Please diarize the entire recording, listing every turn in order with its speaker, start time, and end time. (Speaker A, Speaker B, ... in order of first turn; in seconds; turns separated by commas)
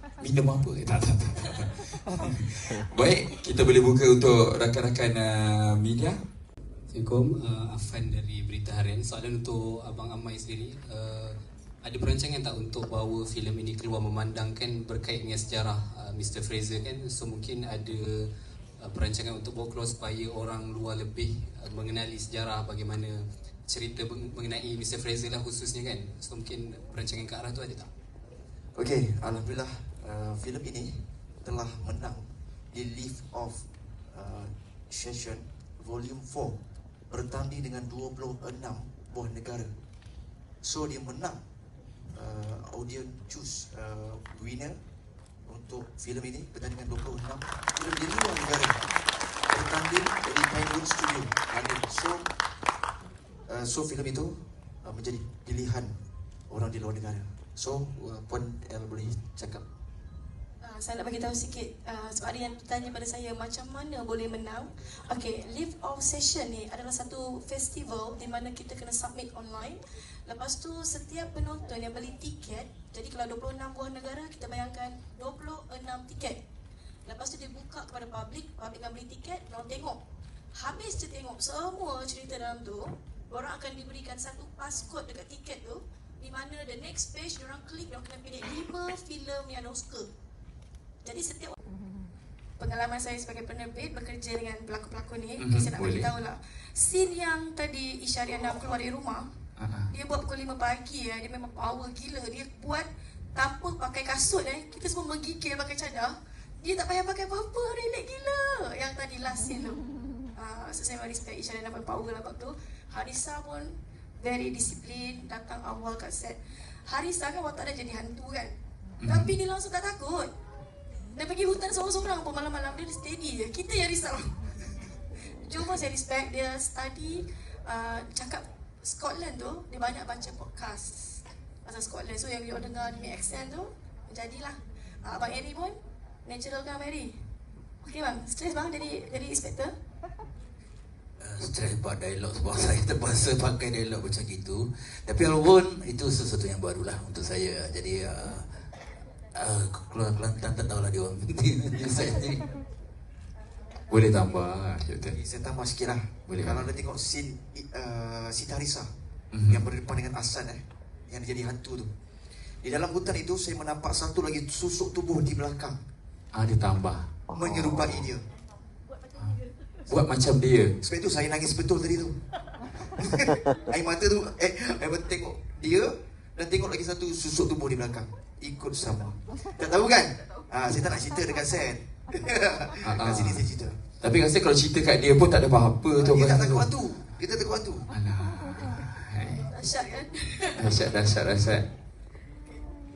Speaker A: 0.2-6.2, Speaker B: 6.9-18.3, Speaker B: 18.8-27.9, Speaker C: 28.8-39.7, Speaker C: 40.6-41.4, Speaker C: 42.1-44.8, Speaker C: 45.5-48.8, Speaker C: 49.5-52.3, Speaker C: 53.5-55.9, Speaker C: 56.5-59.6, Speaker D: 60.6-76.4, Speaker D: 77.1-80.0, Speaker D: 80.6-90.1, Speaker D: 91.0-91.6, Speaker D: 92.6-99.2, Speaker A: 95.4-96.1, Speaker A: 99.6-99.9, Speaker D: 99.9-109.8, Speaker D: 110.4-118.5, Speaker A: 119.0-119.3, Speaker D: 119.1-120.3, Speaker D: 121.1-135.7, Speaker D: 136.3-137.2, Speaker D: 137.8-139.7, Speaker E: 141.2-148.7, Speaker E: 149.3-152.4, Speaker A: 153.9-155.2, Speaker C: 155.1-158.9, Speaker A: 156.3-156.7, Speaker A: 159.3-159.7, Speaker C: 159.5-161.9, Speaker C: 162.6-165.8, Speaker A: 166.3-168.1, Speaker C: 167.3-168.2, Speaker A: 169.9-170.8, Speaker C: 170.8-172.2, Speaker C: 173.2-183.7, Speaker A: 182.8-183.4, Speaker A: 184.0-186.7, Speaker C: 186.0-187.9, Speaker A: 187.9-189.5, Speaker D: 189.4-190.6, Speaker A: 190.6-191.7